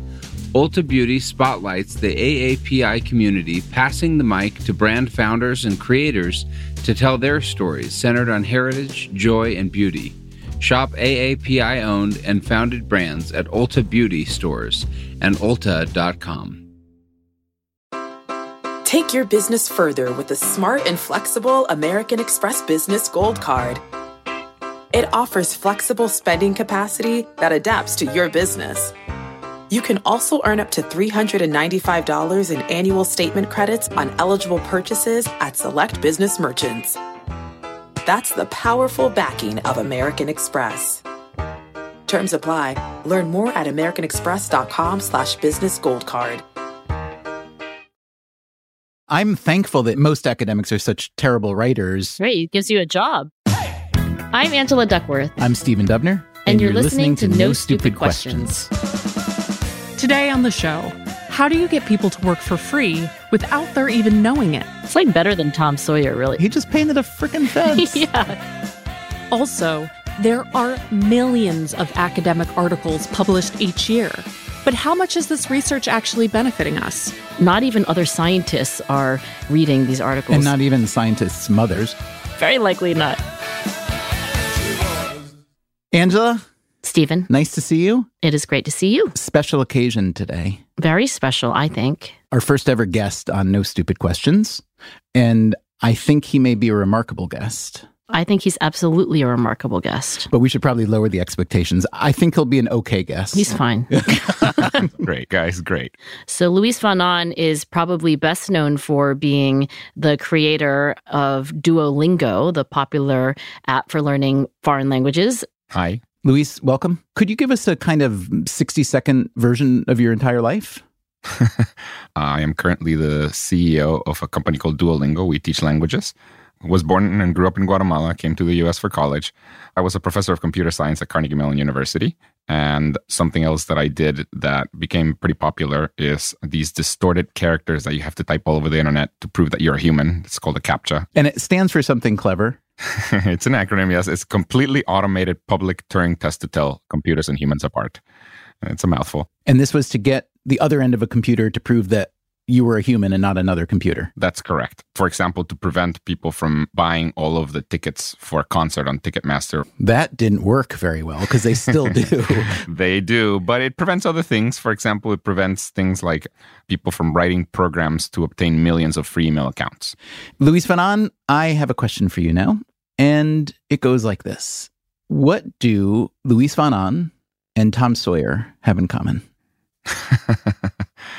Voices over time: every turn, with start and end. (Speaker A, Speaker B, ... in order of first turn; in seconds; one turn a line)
Speaker A: 0.5-16.6
Speaker B: 18.8-23.8
Speaker B: 24.9-28.9
Speaker B: 29.7-37.0
Speaker B: 38.0-41.0
Speaker B: 42.1-46.4
Speaker C: 49.1-52.2
Speaker D: 52.2-53.3
Speaker D: 54.3-55.4
Speaker C: 55.4-58.7
Speaker D: 56.4-58.7
Speaker E: 60.0-64.7
Speaker D: 64.9-66.4
Speaker C: 66.4-68.1
Speaker D: 67.7-68.4
Speaker E: 69.3-77.2
Speaker D: 77.4-80.5
Speaker C: 80.3-82.0
Speaker D: 82.4-83.2
Speaker C: 85.9-86.4
Speaker D: 86.8-87.3
Speaker C: 87.3-88.1
Speaker D: 88.2-89.1
Speaker C: 89.1-90.6
Speaker D: 90.8-92.2
Speaker C: 92.3-94.6
Speaker C: 95.1-97.8
Speaker D: 98.1-100.3
Speaker C: 100.3-104.9
Speaker D: 103.3-104.8
Speaker F: 104.8-105.9
Speaker D: 106.3-115.5
Speaker F: 115.7-116.0
Speaker C: 116.2-120.8
Speaker F: 121.3-141.1
Speaker C: 141.1-142.6
Speaker F: 142.8-148.0
Speaker F: 148.6-149.3
Speaker C: 149.4-154.1
Speaker F: 154.2-159.6
Speaker C: 159.8-162.6
Speaker F: 162.5-169.9
Speaker C: 170.4-179.2
Speaker F: 179.9-180.5